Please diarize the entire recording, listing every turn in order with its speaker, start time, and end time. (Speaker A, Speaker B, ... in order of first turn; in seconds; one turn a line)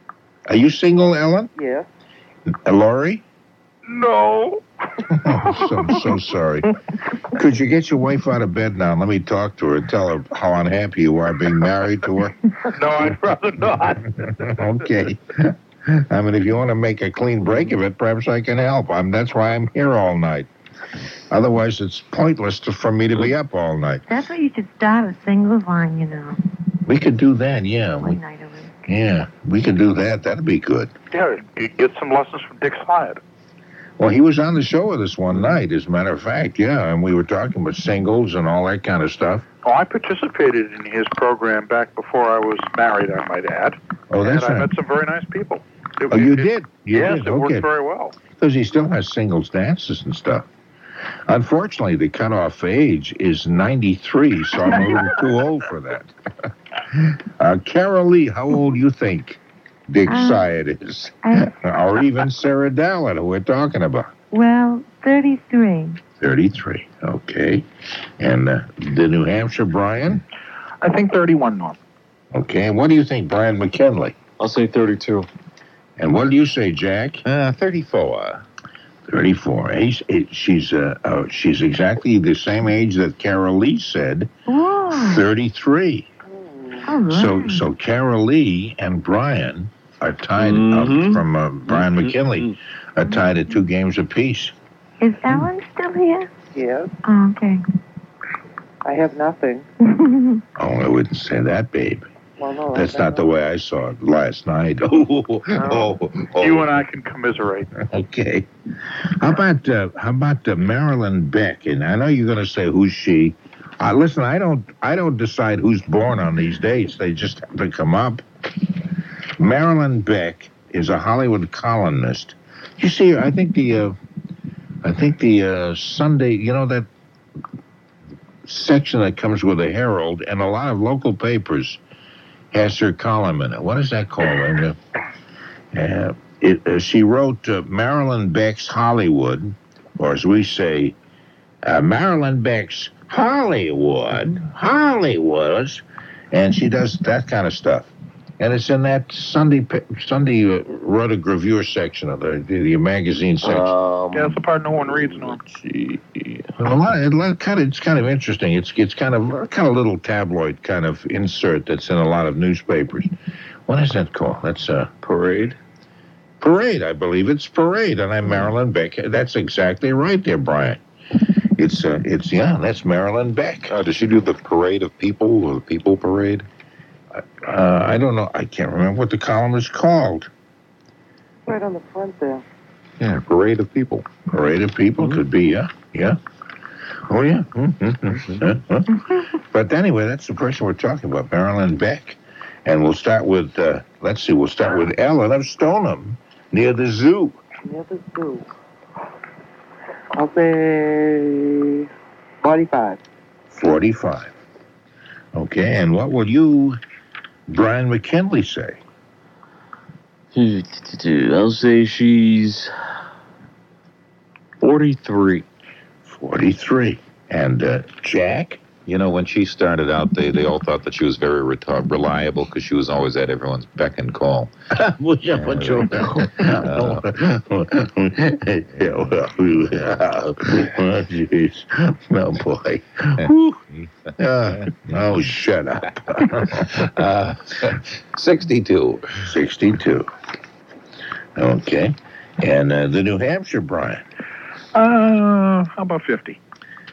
Speaker A: 0.5-1.5
Speaker B: 1.6-1.9
Speaker A: 2.5-3.2
Speaker C: 3.9-5.0
Speaker A: 5.1-6.8
Speaker A: 7.3-12.4
Speaker C: 12.7-14.3
Speaker A: 14.2-20.5
Speaker A: 21.3-24.0
Speaker D: 24.1-26.4
Speaker A: 26.9-28.2
Speaker D: 28.0-28.7
Speaker A: 28.9-30.9
Speaker C: 31.1-33.2
Speaker A: 34.0-39.5
Speaker C: 39.6-48.2
Speaker A: 44.1-44.7
Speaker A: 46.1-47.7
Speaker A: 48.4-50.5
Speaker A: 51.3-56.1
Speaker A: 56.9-64.1
Speaker D: 60.1-60.5
Speaker D: 61.2-61.5
Speaker D: 64.3-66.0
Speaker A: 66.2-67.7
Speaker A: 68.2-70.2
Speaker E: 70.8-71.8
Speaker A: 72.3-74.2
Speaker F: 74.4-75.3
Speaker A: 76.0-77.2
Speaker G: 77.2-78.4
Speaker A: 79.1-84.3
Speaker D: 84.5-85.2
Speaker A: 84.9-86.1
Speaker B: 86.3-87.0
Speaker D: 86.9-87.7
Speaker A: 87.1-94.5
Speaker F: 90.4-92.5
Speaker D: 93.0-93.6
Speaker D: 95.0-96.3
Speaker B: 96.5-96.9
Speaker D: 97.0-97.6
Speaker B: 98.8-99.7
Speaker D: 99.8-100.4
Speaker A: 100.6-102.1
Speaker B: 102.4-103.3
Speaker A: 102.7-106.6
Speaker C: 105.6-105.8
Speaker C: 106.3-107.7
Speaker A: 107.8-108.5
Speaker A: 109.2-118.2
Speaker A: 119.4-124.0
Speaker A: 124.8-126.9
Speaker A: 128.4-131.8
Speaker A: 132.5-134.8
Speaker A: 135.7-140.9
Speaker A: 141.6-153.7
Speaker F: 153.4-156.5
Speaker C: 154.1-155.4
Speaker A: 156.6-163.1
Speaker A: 163.7-164.9
Speaker F: 165.0-165.6
Speaker A: 166.4-170.8
Speaker A: 171.6-173.7
Speaker G: 173.7-176.5
Speaker A: 177.2-180.3
Speaker B: 181.4-182.4
Speaker G: 183.0-184.1
Speaker A: 184.3-186.2
Speaker A: 187.1-197.4
Speaker B: 197.6-198.5
Speaker B: 200.1-201.9
Speaker B: 202.4-203.0
Speaker A: 203.5-204.3
Speaker A: 205.3-206.8
Speaker A: 207.5-208.8
Speaker F: 210.3-212.7
Speaker F: 214.6-215.4
Speaker A: 216.1-218.6
Speaker G: 218.8-224.5
Speaker A: 224.7-233.6
Speaker G: 225.3-227.1
Speaker G: 228.8-230.0
Speaker G: 233.2-233.9
Speaker A: 234.2-236.9
Speaker G: 234.5-235.2
Speaker G: 236.5-239.3
Speaker A: 239.2-240.1
Speaker A: 241.4-244.0
Speaker E: 244.7-246.4